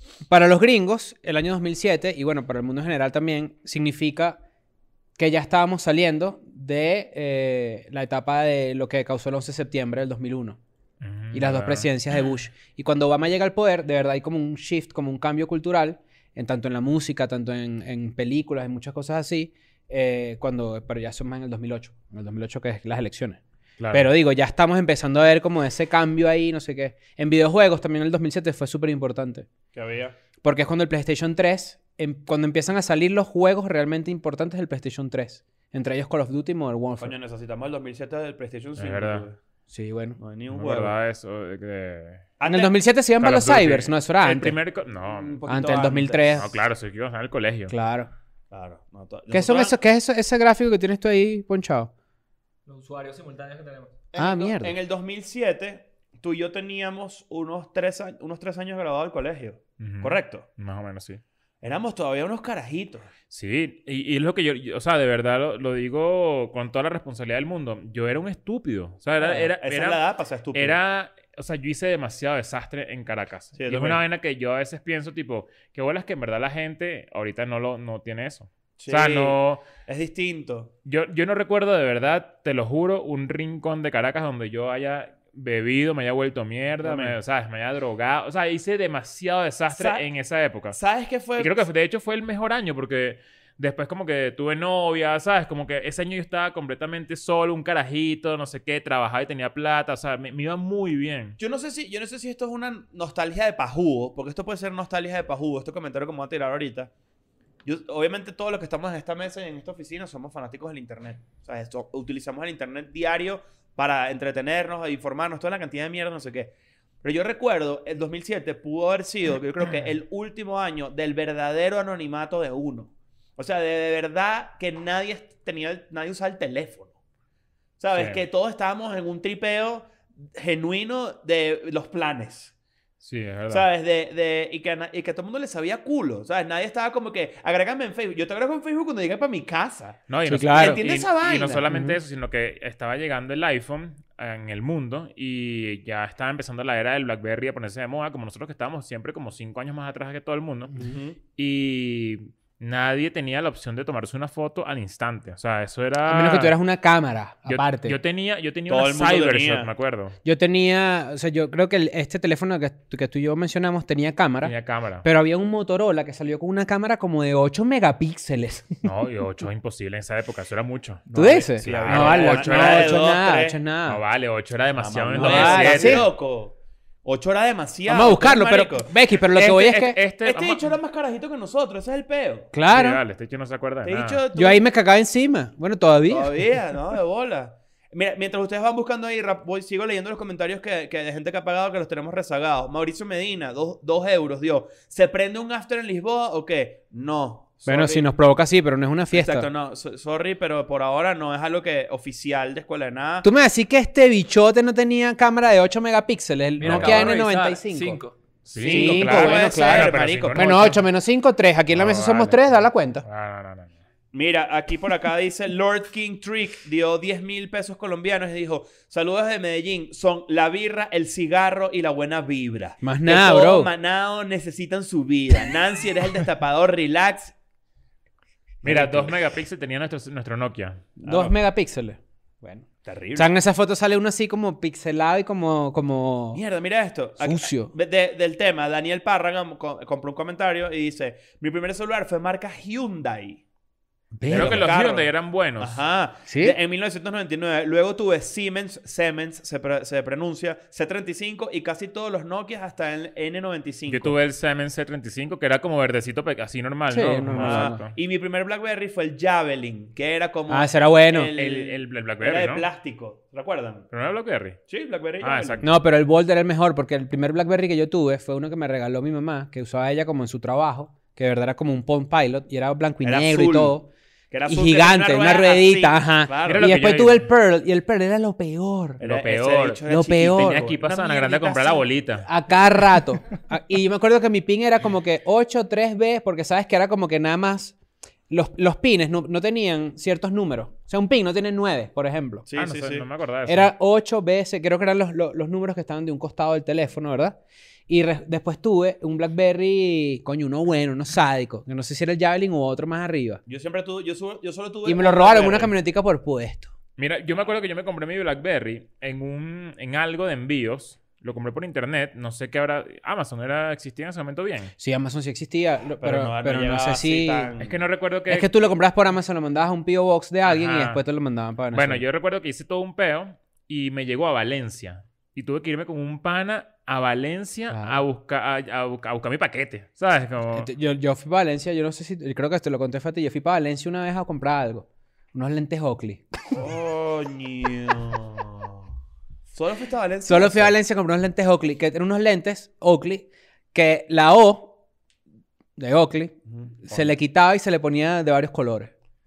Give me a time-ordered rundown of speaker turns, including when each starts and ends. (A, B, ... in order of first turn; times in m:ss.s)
0:00.3-0:04.4 A
0:05.2-0:10.6 A
0:11.0-0:11.9 B
0:11.3-0:23.4 A
0:23.8-0:24.1 B
0:23.9-0:29.5 A
0:29.7-0:30.2 C
0:30.4-0:37.1 A
0:37.0-0:39.4 C
0:38.8-0:39.2 B
0:39.7-0:40.2 A
0:40.2-0:40.9 C
0:40.5-0:42.3 B
0:42.4-0:42.8 C
0:42.4-0:44.6 A
0:43.2-0:45.4 B
0:45.0-0:46.4 C
0:45.5-0:46.5 A
0:46.3-0:47.7 B
0:47.7-0:48.1 A
0:48.5-0:49.8 C
0:49.3-0:51.9 A
0:52.6-0:54.0 D
0:54.1-1:00.4 C
0:54.2-0:54.8 A
0:59.8-1:01.2 B
1:01.6-1:03.1 C
1:03.3-1:10.0 B
1:09.2-1:10.8 C
1:10.5-1:19.6 B
1:13.6-1:14.0 C
1:18.8-1:20.7 C
1:20.8-1:30.8 B
1:26.8-1:27.2 C
1:29.7-1:30.0 C
1:30.7-1:31.6 C
1:31.4-1:41.4 B
1:41.4-1:46.9 C
1:47.6-1:56.5 C
1:57.0-2:06.9 C
2:07.8-2:12.5 C
2:07.9-2:08.2 B
2:13.0-2:13.6 B
2:13.5-2:21.6 C
2:20.1-2:30.7 B
2:20.2-2:20.8 A
2:21.7-2:22.0 A
2:30.8-2:31.2 C
2:31.3-2:36.5 B
2:36.0-2:38.0 A
2:37.4-2:40.2 B
2:38.7-2:39.7 C
2:40.2-2:48.8 A
2:44.4-2:45.0 B
2:48.8-2:51.0 B
2:51.1-2:53.6 C
2:51.1-2:54.0 A
2:51.6-2:53.0 B
2:53.8-2:56.1 B
2:54.8-2:58.9 C
2:55.1-2:56.1 A
2:57.9-3:00.0 A
2:59.3-3:00.8 B
3:00.2-3:02.5 C
3:02.5-3:03.0 A
3:02.7-3:04.2 B
3:03.8-3:04.6 C
3:04.3-3:06.4 A
3:06.1-3:18.1 C
3:17.6-3:19.5 A
3:19.1-3:23.3 C
3:23.2-3:28.0 A
3:26.6-3:28.1 D
3:26.6-3:27.1 B
3:28.4-3:30.8 B
3:28.5-3:30.5 C
3:28.6-3:33.0 A
3:31.7-3:33.7 B
3:34.1-3:47.3 C
3:42.8-3:43.7 A
3:48.6-3:49.2 C
3:48.6-3:50.9 B
3:51.0-3:52.6 A
3:51.0-3:51.3 C
3:52.5-3:53.3 C
3:53.2-3:56.4 A
3:56.3-4:03.4 C
3:57.2-3:57.7 A
4:04.1-4:04.7 A
4:04.2-4:14.1 C
4:04.3-4:05.8 B
4:06.3-4:06.6 A
4:13.9-4:17.9 B
4:16.9-4:17.8 A
4:17.3-4:23.9 C
4:20.5-4:21.3 A
4:21.4-4:22.6 B
4:23.9-4:24.6 B
4:24.7-4:25.6 C
4:25.2-4:25.6 B
4:25.6-4:33.9 A
4:33.0-4:33.8 C
4:34.3-4:37.0 C
4:34.5-4:39.0 A
4:36.4-4:37.3 B
4:39.0-4:41.9 C
4:39.0-4:42.3 B
4:39.8-4:40.7 A
4:42.2-4:47.8 A
4:48.3-4:52.4 A
4:52.5-4:53.0 C
4:52.6-4:53.7 B
4:53.4-5:03.4 A
5:03.5-5:05.7 C
5:04.8-5:06.7 A
5:07.0-5:14.7 B
5:14.8-5:17.5 A
5:16.0-5:17.8 C
5:17.6-5:18.6 B
5:18.3-5:22.0 A
5:20.4-5:21.0 B
5:21.7-5:30.7 B
5:27.7-5:28.0 A
5:30.5-5:36.6 A
5:36.5-5:38.8 C
5:39.5-5:40.8 C
5:40.2-5:44.7 A
5:45.8-5:48.9 A
5:46.4-5:47.2 C